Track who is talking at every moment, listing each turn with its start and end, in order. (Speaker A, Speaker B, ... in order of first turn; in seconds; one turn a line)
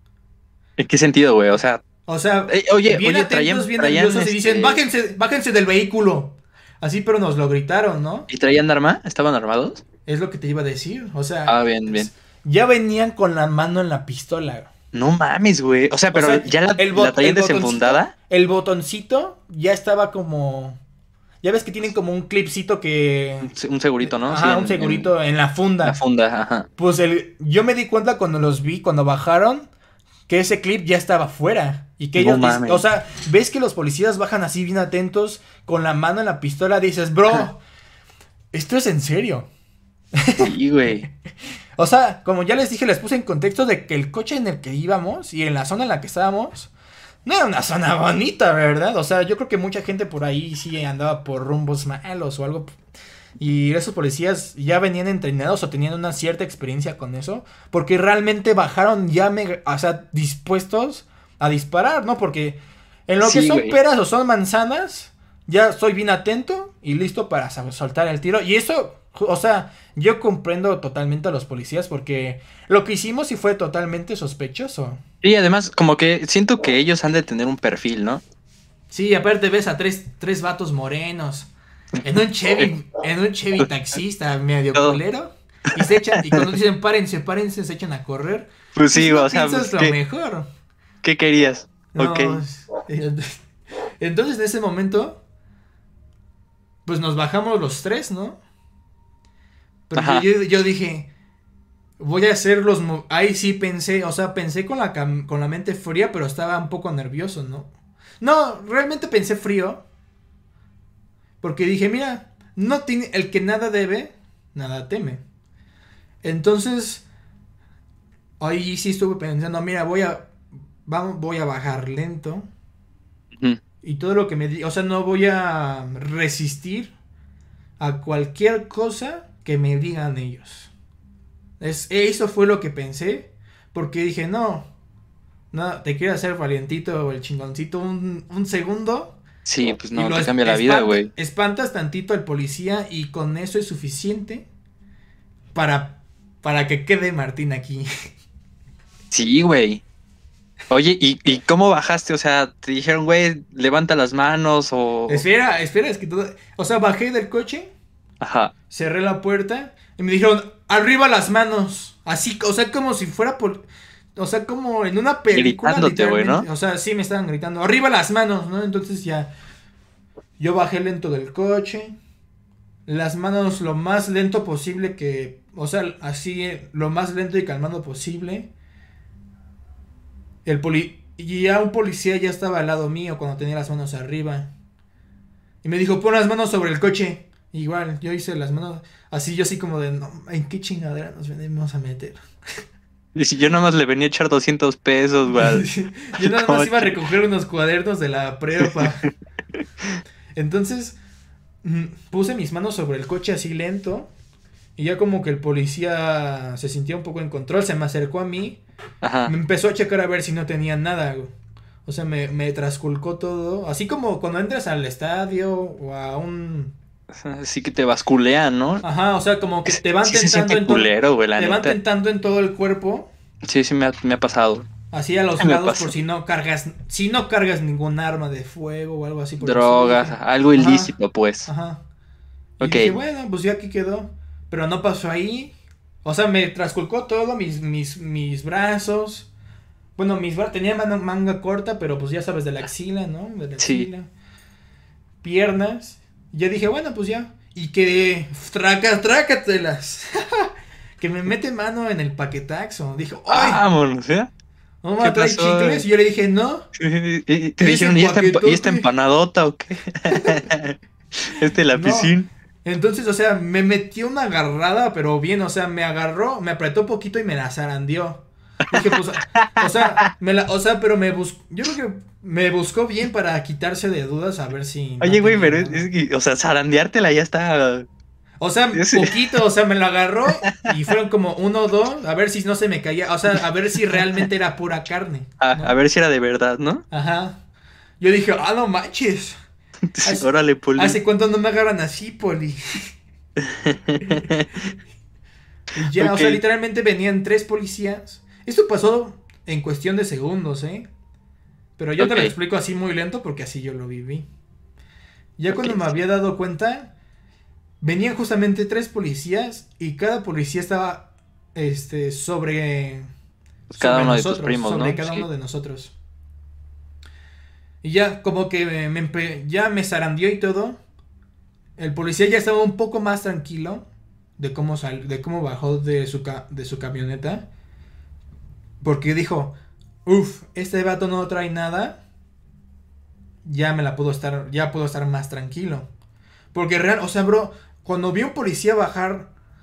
Speaker A: 0.8-1.8
Speaker B: 2.0-8.3
Speaker A: 2.5-4.8
Speaker A: 8.3-9.8
Speaker B: 10.1-14.7
Speaker A: 11.5-12.1
Speaker A: 14.9-18.1
Speaker B: 16.1-20.8
Speaker B: 21.4-23.5
Speaker A: 23.4-25.1
Speaker B: 24.0-26.0
Speaker A: 25.8-26.7
Speaker B: 26.8-29.7
Speaker B: 30.3-37.6
Speaker A: 32.1-32.8
Speaker B: 38.5-39.5
Speaker B: 40.1-41.1
Speaker A: 40.4-41.1
Speaker B: 41.8-46.7
Speaker B: 47.2-52.7
Speaker B: 53.4-75.0
Speaker A: 63.2-63.8
Speaker A: 75.2-78.2
Speaker B: 78.9-81.5
Speaker B: 82.0-90.5
Speaker A: 84.7-85.0
Speaker A: 85.8-86.5
Speaker A: 88.7-90.0
Speaker A: 91.0-92.4
Speaker B: 91.9-93.3
Speaker B: 94.0-95.2
Speaker B: 96.8-98.4
Speaker B: 99.9-101.1
Speaker A: 99.9-100.2
Speaker B: 102.0-107.7
Speaker B: 108.2-109.8
Speaker B: 111.4-115.2
Speaker B: 116.2-117.0
Speaker B: 118.4-120.3
Speaker B: 120.8-122.5
Speaker B: 123.8-126.9
Speaker B: 127.8-130.7
Speaker B: 131.6-134.7
Speaker B: 135.5-139.2
Speaker A: 139.4-141.1
Speaker B: 139.9-144.5
Speaker B: 145.5-147.9
Speaker A: 149.1-149.8
Speaker A: 150.7-155.2
Speaker B: 155.1-157.7
Speaker A: 158.2-158.5
Speaker B: 158.7-169.3
Speaker A: 165.3-166.5
Speaker B: 170.4-171.9
Speaker B: 172.9-178.5
Speaker B: 180.4-184.5
Speaker B: 185.6-192.2
Speaker A: 193.1-196.9
Speaker B: 195.3-199.1
Speaker A: 198.6-198.9
Speaker A: 199.6-200.0
Speaker B: 200.3-201.0
Speaker B: 201.6-204.1
Speaker B: 204.8-208.6
Speaker A: 209.0-209.3
Speaker B: 209.2-211.3
Speaker B: 211.8-216.7
Speaker A: 217.1-218.8
Speaker B: 218.8-223.1
Speaker A: 219.7-221.8
Speaker A: 223.4-224.7
Speaker B: 224.9-230.9
Speaker A: 225.4-225.9
Speaker A: 229.4-231.5
Speaker B: 231.4-231.8
Speaker B: 232.6-239.3
Speaker A: 232.6-232.9
Speaker B: 240.0-244.1
Speaker A: 243.6-243.9
Speaker B: 245.2-253.6
Speaker A: 253.3-254.3
Speaker B: 254.8-256.7
Speaker A: 255.0-255.8
Speaker A: 256.8-262.3
Speaker B: 257.6-258.9
Speaker B: 260.1-260.4
Speaker B: 261.7-275.9
Speaker A: 268.7-270.0
Speaker A: 275.0-277.9
Speaker B: 278.4-285.7
Speaker A: 278.7-279.3
Speaker A: 285.4-286.8
Speaker B: 286.9-287.4
Speaker B: 288.0-289.4
Speaker A: 289.9-291.0
Speaker B: 290.0-292.8
Speaker A: 293.4-294.7
Speaker B: 294.0-294.3
Speaker B: 295.7-300.9
Speaker A: 295.9-296.4
Speaker B: 301.8-304.3
Speaker A: 302.0-302.3
Speaker B: 305.4-306.9
Speaker A: 305.5-305.9
Speaker B: 307.8-313.1
Speaker A: 313.7-315.2
Speaker B: 313.8-315.9
Speaker B: 317.8-320.8
Speaker B: 321.8-323.9
Speaker B: 324.4-327.5
Speaker B: 328.8-332.0
Speaker B: 333.4-335.9
Speaker B: 336.5-339.3